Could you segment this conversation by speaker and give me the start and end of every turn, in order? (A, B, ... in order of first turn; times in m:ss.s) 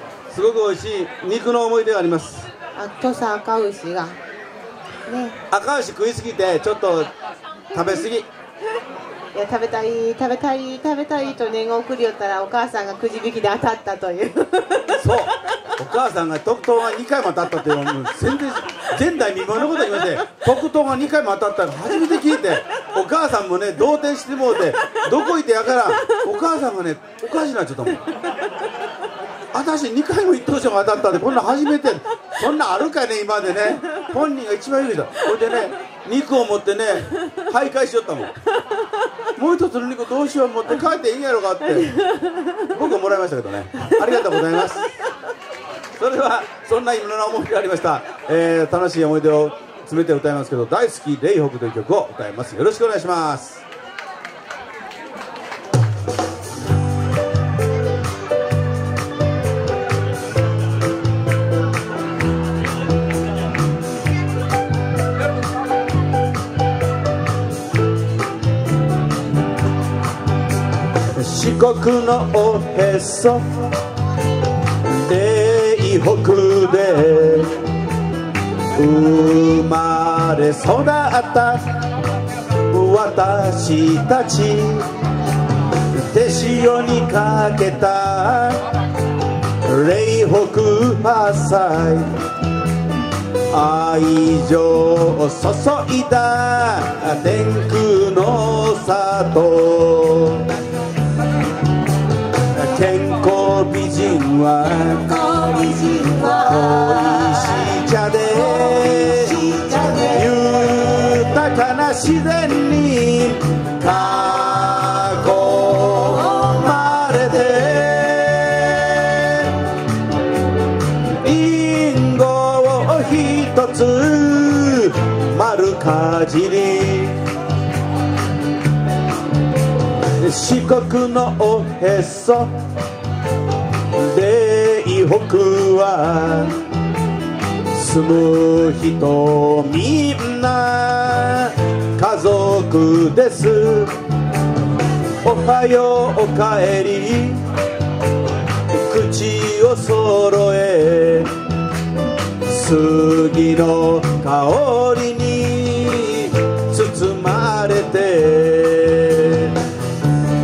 0:00.3-0:02.5 A
0:02.8-0:04.2 B
0:05.1-0:05.4 B
0:05.5-0:07.1 A
0:07.7-0:08.3 A
0:09.3-0:15.0 B
0:15.0-0:28.0 A
0:29.5-0:38.3 A
0:39.4-0:41.9 A
0:42.6-0:44.9 A
0:46.0-0:53.6 A
1:11.1-1:13.4 A
1:14.8-1:17.5 A
1:18.7-1:21.6 A
1:22.7-1:24.9 A
1:25.9-1:28.6 A
1:29.6-1:32.1 A
1:33.5-1:40.5 A
1:42.5-1:45.0 A
1:45.0-1:50.5 B
1:46.3-1:59.5 A
1:56.0-1:56.7 B
2:01.2-2:07.2 A
2:10.2-2:12.5 A
2:13.9-2:16.6 A
2:17.7-2:23.9 A
2:25.2-2:27.4 A
2:28.7-2:31.3 A
2:32.4-2:39.5 A